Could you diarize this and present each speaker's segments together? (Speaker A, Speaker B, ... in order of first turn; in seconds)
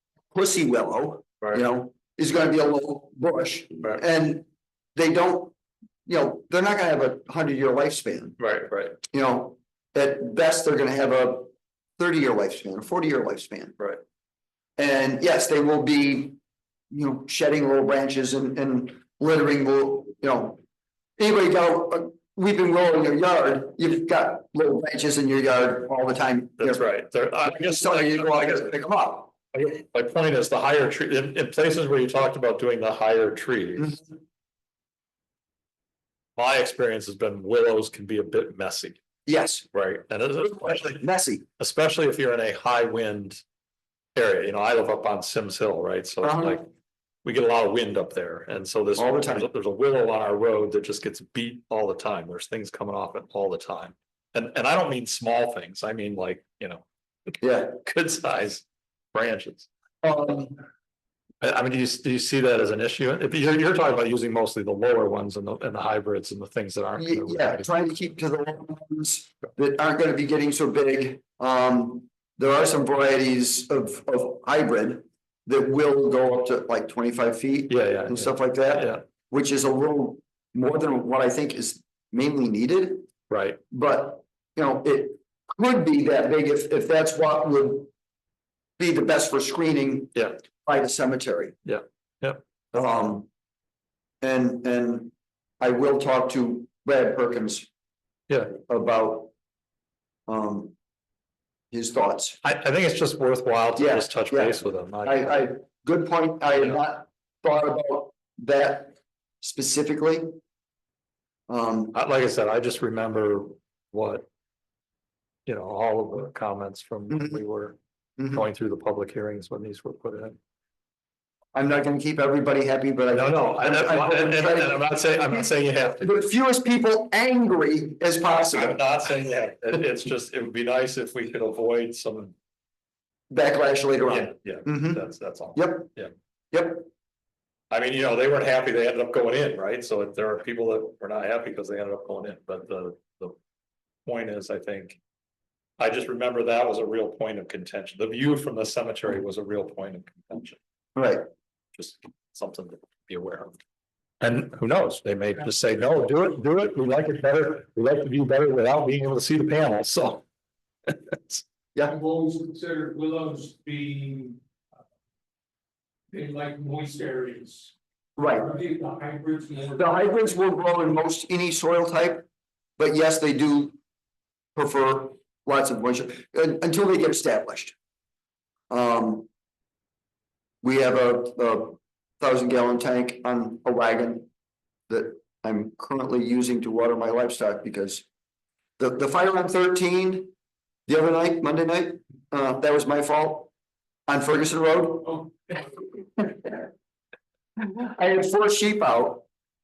Speaker A: 0.3-5.5, 6.1-8.4, 9.1-13.8, 14.8-16.4, 16.9-20.6, 21.2-26.9, 27.4-29.4, 39.3-39.7, 40.6-41.4, 46.2-46.6, 49.0-49.5, 57.4-57.7, 60.0-60.6, 67.0-83.0, 83.7-87.9, 88.8-91.6, 92.7-93.3, 94.2-97.7, 98.7-99.3, 100.3-100.7, 101.7-102.4, 103.8-110.3, 111.5-112.0, 117.1-117.4, 118.2-118.4, 121.5-128.9, 133.3-135.0, 135.6-135.9, 136.5-136.9, 151.0-151.2, 168.2-168.5, 169.8-172.2, 172.8-173.8, 174.6-177.8, 178.7-179.3, 180.6-184.3, 184.9-188.1, 188.8-190.3, 190.9-193.5, 194.1-196.7, 197.6-199.3
Speaker B: 8.4-9.0, 26.6-28.7, 29.5-34.0, 36.4-39.0, 39.7-41.0, 41.6-43.4, 44.2-46.7, 47.2-59.7, 61.4-67.7, 77.7-79.0, 83.3-83.6, 91.6-92.5, 98.3-98.6, 102.4-105.3, 111.9-114.3, 115.5-117.8, 118.3-120.4, 123.1-126.1, 128.3-132.3, 134.1-136.1, 137.7-143.3, 144.1-145.0, 145.8-150.6, 151.8-153.6, 154.2-160.2, 160.9-161.4
Speaker C: 161.9-164.4, 166.1-167.7, 168.3-169.9